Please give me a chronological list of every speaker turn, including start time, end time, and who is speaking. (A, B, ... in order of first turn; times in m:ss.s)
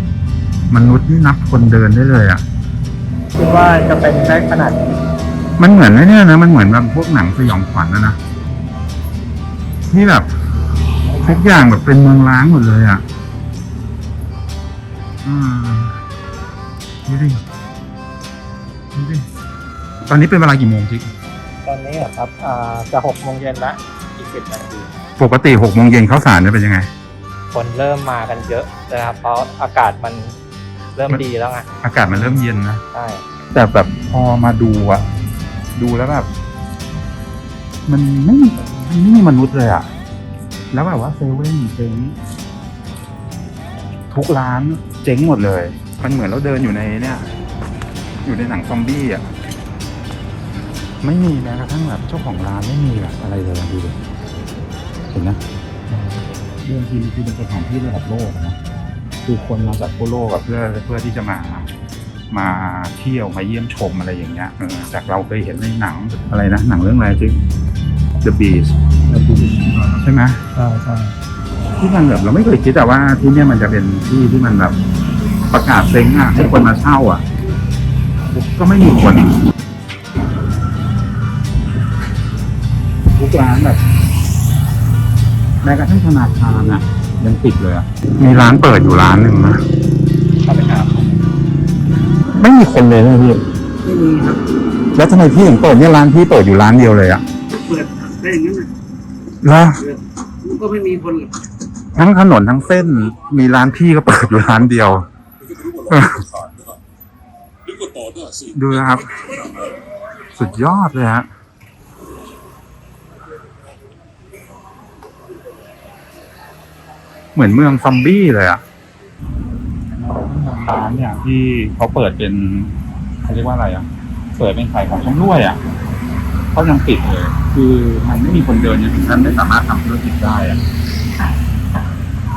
0:00.7-0:02.4 A
0:03.3-0:05.0 B
0:05.6-0:08.2 A
0:09.9-0:10.3 A
0:11.2-0:13.0 A
0:15.2-0:16.0 A
0:17.0-0:17.4 A
0:18.9-0:19.3 A
0:20.1-0:21.1 A
0:21.6-0:24.9 B
0:25.2-0:26.9 A
0:27.5-0:30.4 B
0:31.0-0:31.7 B
0:31.8-0:32.8 A
0:32.9-0:33.2 B
0:33.5-0:35.0 A
0:35.7-0:36.3 A
0:37.8-0:39.9 A
0:40.7-0:42.2 A
0:44.1-0:47.3 A
0:48.2-0:49.3 A
0:51.0-0:54.0 A
0:55.1-0:58.6 A
0:59.2-1:01.7 A
1:02.3-1:07.4 A
1:08.2-1:08.8 A
1:09.1-1:09.6 B
1:09.3-1:10.4 A
1:10.5-1:11.1 B
1:11.8-1:14.8 A
1:15.5-1:17.2 A
1:18.3-1:19.4 A
1:23.2-1:23.8 A
1:25.6-1:29.6 A
1:30.4-1:31.0 B
1:32.3-1:33.4 A
1:33.8-1:34.4 C
1:34.9-1:37.2 A
1:37.6-1:38.7 C
1:39.4-1:39.8 A
1:39.8-1:41.3 C
1:41.9-1:45.1 A
1:45.7-1:46.3 A
1:48.3-1:49.3 A
1:50.3-1:51.3 A
1:57.3-1:58.6 A
2:00.0-2:03.9 A
2:04.4-2:05.6 A
2:06.5-2:10.6 A